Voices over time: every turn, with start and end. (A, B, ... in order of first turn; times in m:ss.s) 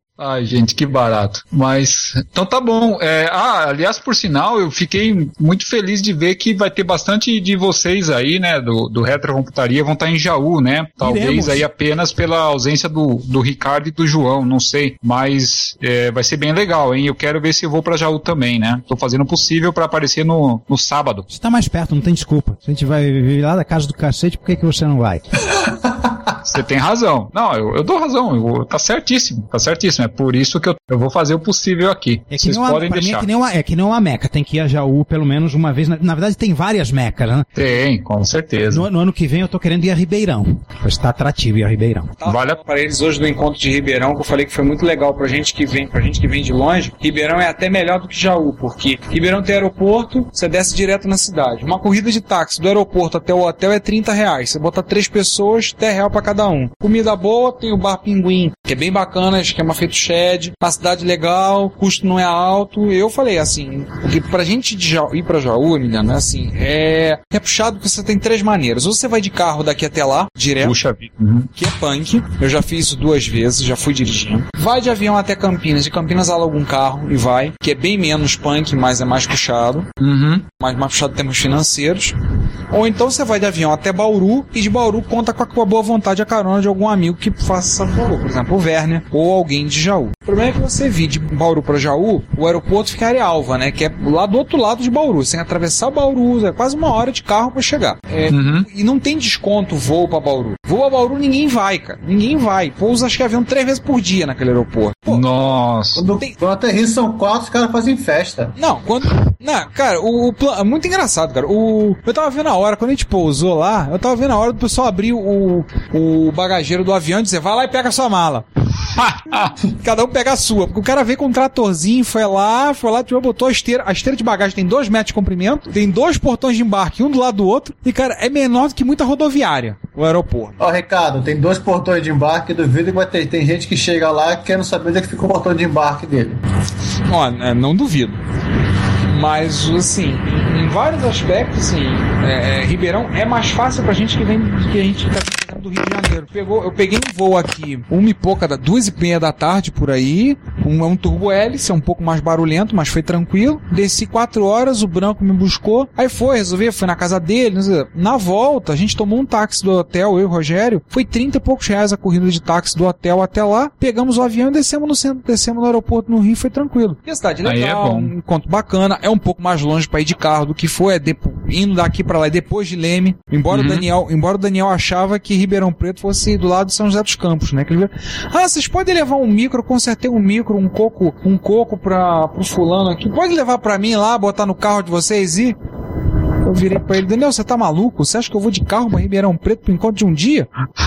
0:00.2-0:21.3 A
0:11.0-0:11.6 B
0:21.3-0:25.2 B
0:25.7-0:26.1 C
0:26.5-0:33.3 A
0:32.3-0:37.4 B
0:37.6-0:38.9 A
0:38.7-0:42.1 B
0:42.2-1:10.8 D
0:42.2-0:42.6 A
1:10.6-1:11.5 A
1:11.6-1:19.9 D
1:20.0-1:20.4 A
1:20.6-1:22.2 D
1:22.7-1:45.3 D
1:38.3-1:38.7 A
1:45.1-1:46.1 A
1:46.0-1:48.6 C
1:48.6-1:58.4 D
1:59.0-1:59.6 A
1:59.8-2:10.6 D
2:10.6-2:16.4 C
2:17.1-2:18.2 D
2:19.1-3:05.6 D
2:47.4-2:48.1 A
2:53.5-2:53.9 A
3:06.4-3:10.5 D